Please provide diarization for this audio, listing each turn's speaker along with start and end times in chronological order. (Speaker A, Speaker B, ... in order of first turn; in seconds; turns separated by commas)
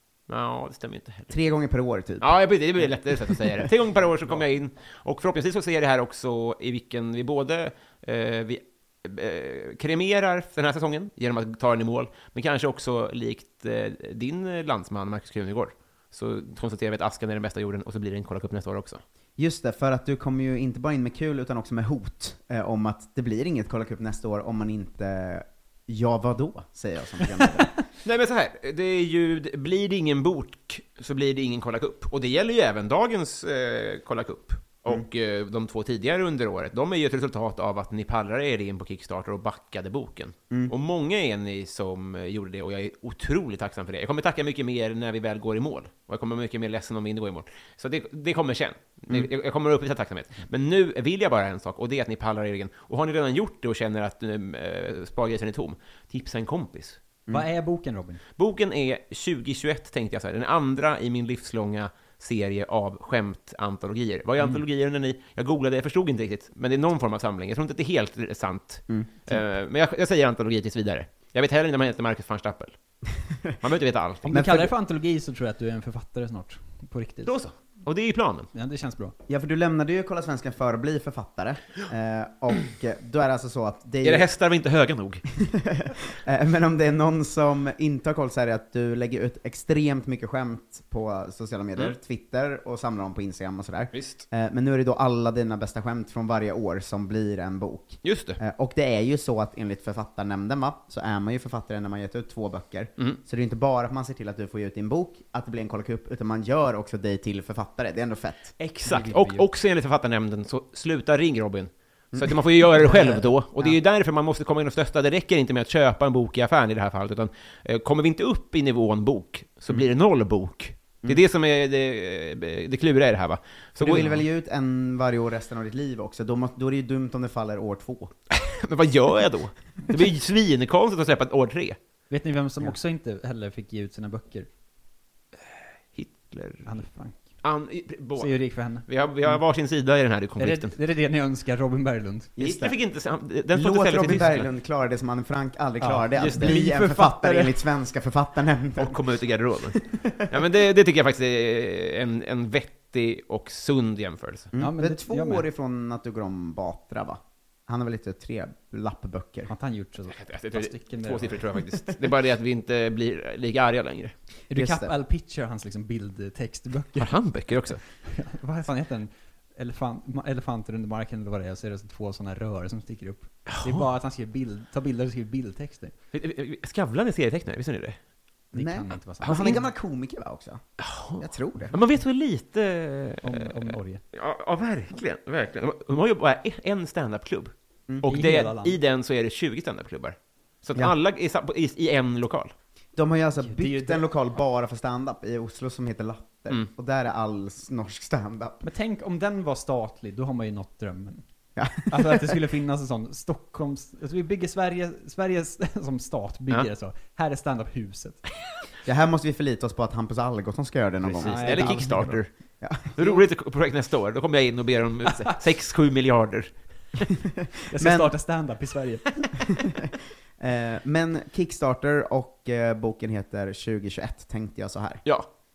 Speaker A: 0.3-1.3, Speaker B: 1.3-2.4, Speaker A: 2.2-19.0, Speaker B: 3.3-3.6, Speaker B: 19.4-27.7, Speaker A: 28.0-57.0, Speaker C: 57.3-58.2, Speaker A: 58.4-72.8, Speaker B: 68.9-69.4, Speaker A: 73.6-74.3, Speaker C: 74.3-77.3, Speaker B: 74.3-74.7, Speaker A: 77.2-78.5, Speaker C: 78.5-79.2, Speaker B: 79.3-84.3, Speaker A: 84.0-85.2, Speaker B: 85.4-109.3, Speaker A: 93.9-94.2, Speaker A: 98.0-98.4, Speaker A: 108.6-124.1, Speaker C: 108.9-109.3, Speaker B: 112.1-113.2, Speaker B: 123.8-128.1, Speaker C: 123.8-124.2, Speaker A: 128.3-131.8, Speaker C: 132.1-134.5, Speaker A: 135.9-136.7, Speaker C: 136.7-137.3, Speaker A: 137.4-140.8, Speaker C: 138.2-139.4, Speaker C: 140.4-142.3, Speaker B: 142.4-142.8, Speaker A: 142.4-144.5, Speaker B: 143.5-149.0, Speaker C: 145.8-147.6, Speaker A: 148.8-154.5, Speaker B: 149.8-150.3, Speaker B: 154.5-159.5, Speaker C: 154.6-155.4, Speaker C: 159.5-161.4, Speaker A: 160.1-164.1, Speaker C: 164.5-167.1, Speaker B: 164.5-164.9, Speaker A: 167.0-167.8, Speaker C: 168.0-175.9, Speaker A: 173.5-173.8, Speaker A: 176.1-178.0, Speaker C: 178.5-179.7, Speaker B: 178.5-180.6, Speaker A: 179.2-179.6, Speaker A: 180.8-192.5, Speaker B: 181.2-181.8, Speaker C: 183.2-184.0, Speaker C: 188.1-188.8, Speaker B: 193.0-198.6, Speaker C: 193.4-194.1, Speaker C: 198.6-201.2, Speaker B: 201.6-202.4, Speaker C: 201.9-208.2, Speaker B: 208.8-213.2, Speaker A: 211.0-212.3, Speaker C: 211.2-212.2, Speaker A: 213.0-217.0, Speaker C: 217.7-219.4, Speaker B: 217.8-218.1, Speaker B: 220.4-225.0